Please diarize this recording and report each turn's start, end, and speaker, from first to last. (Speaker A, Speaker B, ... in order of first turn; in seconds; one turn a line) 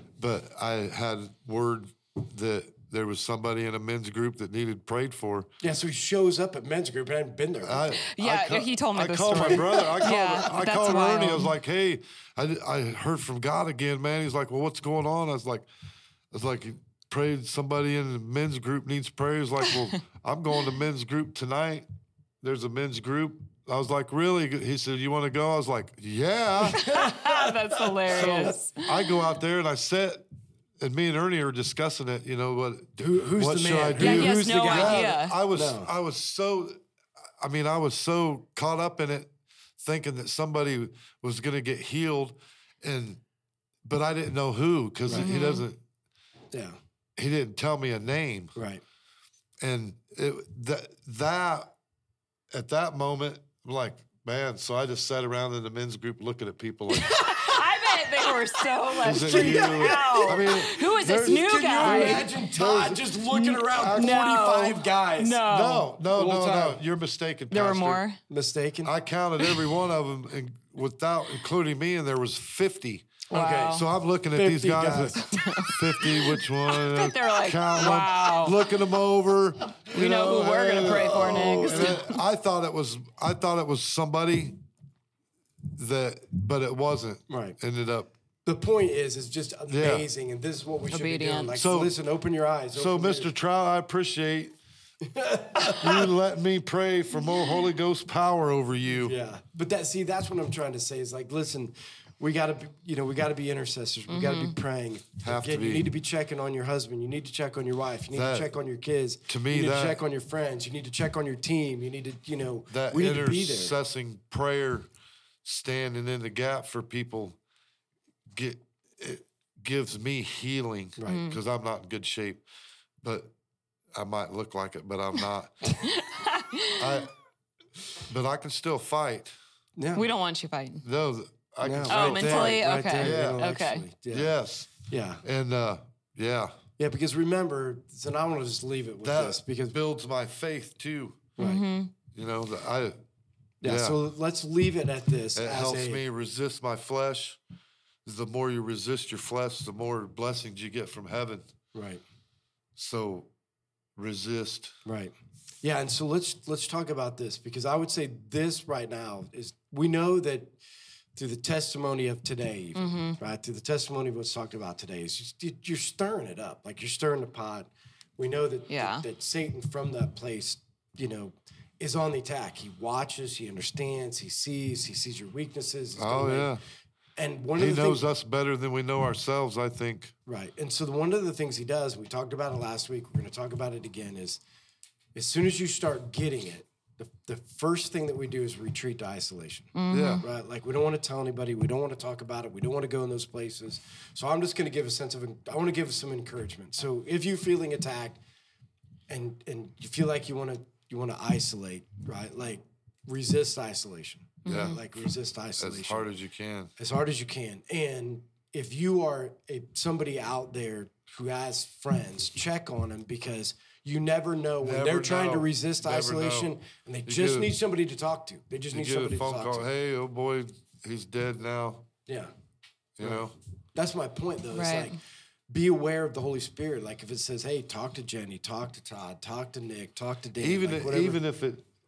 Speaker A: 0.2-5.5
Speaker B: 5.6-8.0
Speaker A: 7.6-15.7
Speaker C: 8.1-11.5
Speaker B: 9.3-10.6
Speaker A: 16.3-21.9
Speaker A: 22.4-26.9
Speaker B: 26.6-28.6
Speaker C: 26.7-29.2
Speaker A: 28.1-30.2
Speaker A: 30.8-36.8
Speaker B: 33.0-35.9
Speaker C: 33.9-35.4
Speaker A: 37.4-43.2
Speaker A: 43.8-45.8
Speaker C: 45.1-45.7
Speaker A: 47.2-48.5
Speaker B: 48.5-48.8
Speaker A: 49.6-51.7
Speaker A: 52.5-57.5
Speaker C: 56.9-62.3
Speaker A: 59.0-63.1
Speaker B: 59.0-65.5
Speaker C: 63.2-65.9
Speaker A: 63.8-64.2
Speaker A: 65.4-68.0
Speaker B: 66.1-66.8
Speaker C: 67.5-68.2
Speaker B: 68.3-68.9
Speaker A: 68.8-84.6
Speaker C: 69.4-69.7
Speaker B: 73.3-75.8
Speaker C: 73.3-73.8
Speaker C: 75.1-78.6
Speaker C: 79.9-82.2
Speaker B: 80.8-81.9
Speaker A: 85.7-88.1
Speaker B: 87.3-87.6
Speaker B: 88.4-93.3
Speaker A: 89.7-90.1
Speaker C: 90.9-91.5
Speaker A: 91.5-91.9
Speaker A: 92.7-94.5
Speaker B: 95.0-96.1
Speaker A: 95.8-99.2
Speaker B: 99.0-113.8
Speaker C: 104.1-104.5
Speaker A: 105.2-105.9
Speaker A: 108.1-108.5
Speaker A: 109.3-110.0
Speaker A: 112.7-114.9
Speaker A: 115.4-117.4
Speaker A: 118.3-122.4
Speaker B: 121.0-121.2
Speaker C: 121.1-121.4
Speaker A: 123.0-123.3
Speaker A: 123.9-125.8
Speaker C: 125.8-127.0
Speaker A: 126.8-127.1
Speaker A: 128.1-129.3
Speaker B: 129.8-130.1
Speaker C: 129.9-130.8
Speaker A: 130.8-133.4
Speaker B: 131.6-135.2
Speaker C: 131.9-133.8
Speaker A: 134.1-136.6
Speaker B: 136.8-139.8
Speaker A: 139.0-141.3
Speaker C: 141.4-141.9
Speaker A: 142.1-143.0
Speaker B: 143.6-146.0
Speaker A: 143.6-144.0
Speaker A: 145.3-147.4
Speaker A: 148.0-151.5
Speaker B: 151.7-152.0
Speaker A: 152.8-153.3
Speaker A: 153.9-154.8
Speaker B: 154.8-160.6
Speaker B: 161.2-176.6
Speaker C: 162.7-163.2
Speaker C: 168.7-169.0
Speaker A: 175.9-176.6
Speaker B: 177.2-178.1
Speaker A: 177.6-180.1
Speaker B: 180.2-184.4
Speaker B: 185.1-198.2
Speaker C: 189.8-190.2
Speaker A: 189.9-190.2
Speaker B: 199.1-206.1
Speaker C: 204.4-204.8
Speaker A: 204.4-204.8
Speaker A: 205.6-206.7
Speaker B: 206.8-219.7
Speaker A: 214.6-216.5
Speaker A: 217.1-217.5
Speaker A: 218.7-221.9
Speaker B: 222.1-222.3
Speaker A: 223.0-223.3
Speaker B: 223.0-225.0
Speaker C: 224.5-224.9
Speaker B: 225.5-231.2
Speaker A: 230.4-231.7